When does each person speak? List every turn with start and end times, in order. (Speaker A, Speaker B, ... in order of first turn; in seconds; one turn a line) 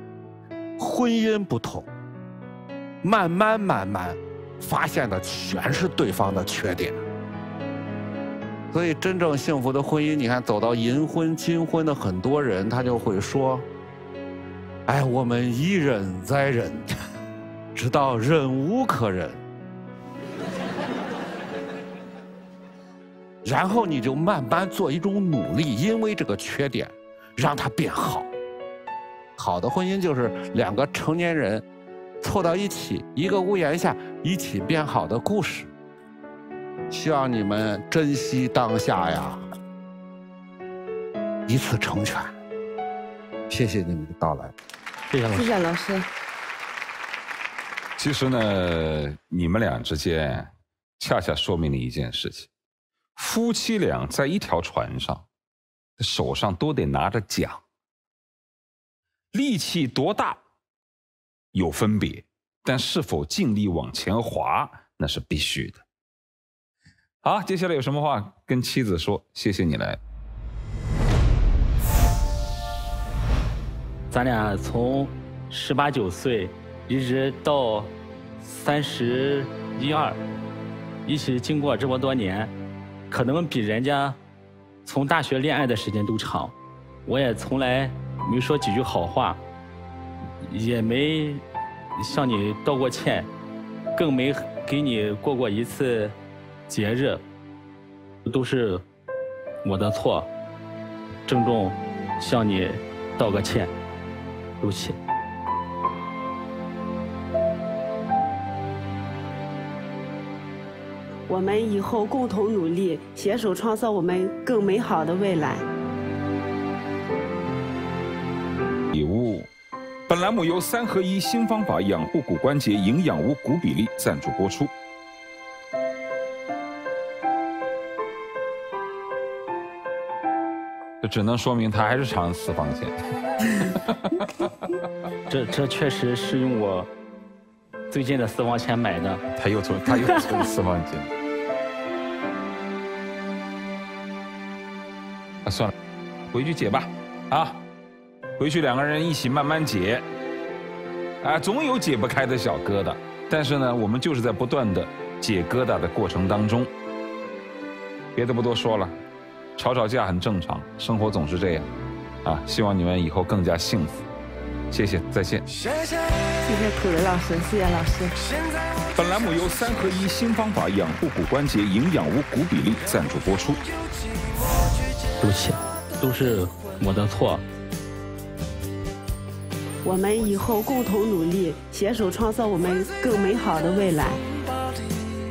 Speaker A: 0.8-1.9
Speaker A: 3.0-7.0
Speaker A: 8.7-13.7
Speaker A: 14.9-16.9
Speaker A: 17.7-19.4
Speaker A: 23.4-28.3
Speaker A: 29.4-31.6
Speaker A: 32.2-35.7
Speaker A: 36.9-39.4
Speaker A: 41.5-42.3
Speaker A: 43.5-44.5
Speaker B: 45.1-45.5
Speaker C: 45.3-46.1
Speaker D: 48.0-52.5
Speaker D: 53.1-55.2
Speaker D: 56.0-57.6
Speaker D: 59.3-60.4
Speaker D: 61.5-65.8
Speaker D: 67.2-70.0
Speaker B: 74.1-80.2
Speaker B: 81.0-82.5
Speaker B: 83.1-84.2
Speaker B: 84.8-86.5
Speaker B: 87.0-89.4
Speaker B: 90.4-91.4
Speaker B: 92.0-93.3
Speaker B: 94.0-96.2
Speaker B: 96.7-97.2
Speaker B: 98.2-98.8
Speaker B: 99.6-100.3
Speaker B: 101.3-103.7
Speaker B: 104.6-105.0
Speaker C: 111.3-115.6
Speaker D: 118.9-119.5
Speaker D: 120.1-124.7
Speaker D: 131.0-134.7
Speaker B: 135.3-136.9
Speaker B: 137.9-139.2
Speaker D: 139.3-141.1
Speaker D: 145.4-145.7
Speaker D: 146.3-147.6
Speaker D: 148.4-150.1
Speaker D: 151.2-156.7
Speaker D: 158.1-158.9
Speaker D: 159.6-161.7
Speaker D: 162.2-164.1
Speaker D: 164.7-165.4
Speaker C: 166.4-168.2
Speaker D: 168.9-173.6
Speaker B: 175.2-177.4
Speaker C: 179.8-184.2